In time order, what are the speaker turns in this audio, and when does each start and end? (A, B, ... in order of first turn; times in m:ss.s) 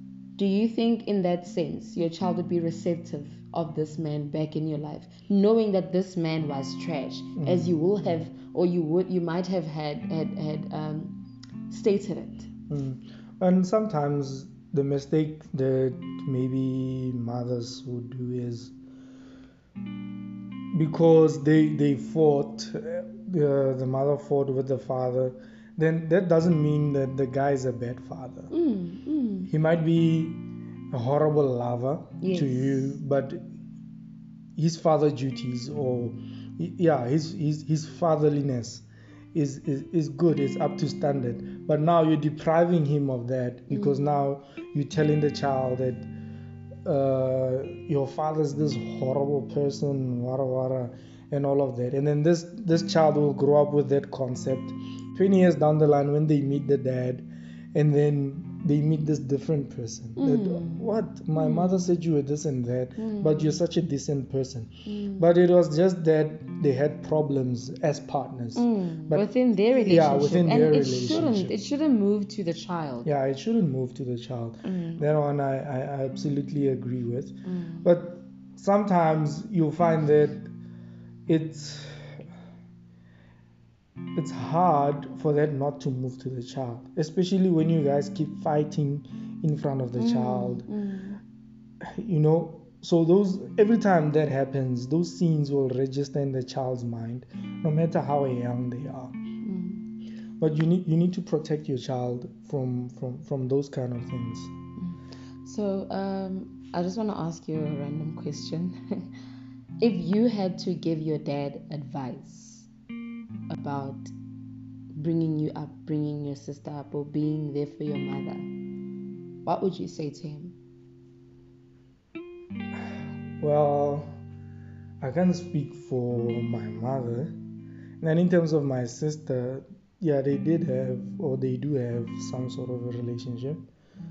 0:00.4-0:11.1 A
0:07.4-0:08.2 B
0:11.7-0:12.5 A
0:12.7-0:18.7 B
0:20.7-0:28.5 B
0:28.5-0:29.5 A
0:29.5-0:30.4 B
0:30.9-0:33.4 B
0:32.2-0:32.9 A
0:34.6-0:46.1 B
0:43.7-0:44.1 A
0:46.8-1:09.3 B
1:00.2-1:01.9 A
1:03.0-1:03.6 A
1:04.8-1:05.2 A
1:08.6-1:13.1 A
1:09.8-1:11.5 B
1:13.0-1:20.5 B
1:14.6-1:15.0 A
1:17.4-1:17.9 A
1:21.3-1:22.2 B
1:24.1-1:30.7 B
1:30.0-1:31.2 A
1:31.9-1:39.1 B
1:39.4-1:39.8 A
1:40.4-1:44.5 B
1:44.8-1:49.1 A
1:49.8-1:52.7 A
1:53.5-1:54.1 A
1:54.9-1:58.5 A
1:59.4-2:00.6 A
2:03.4-2:04.1 B
2:05.0-2:07.3 B
2:08.0-2:13.6 B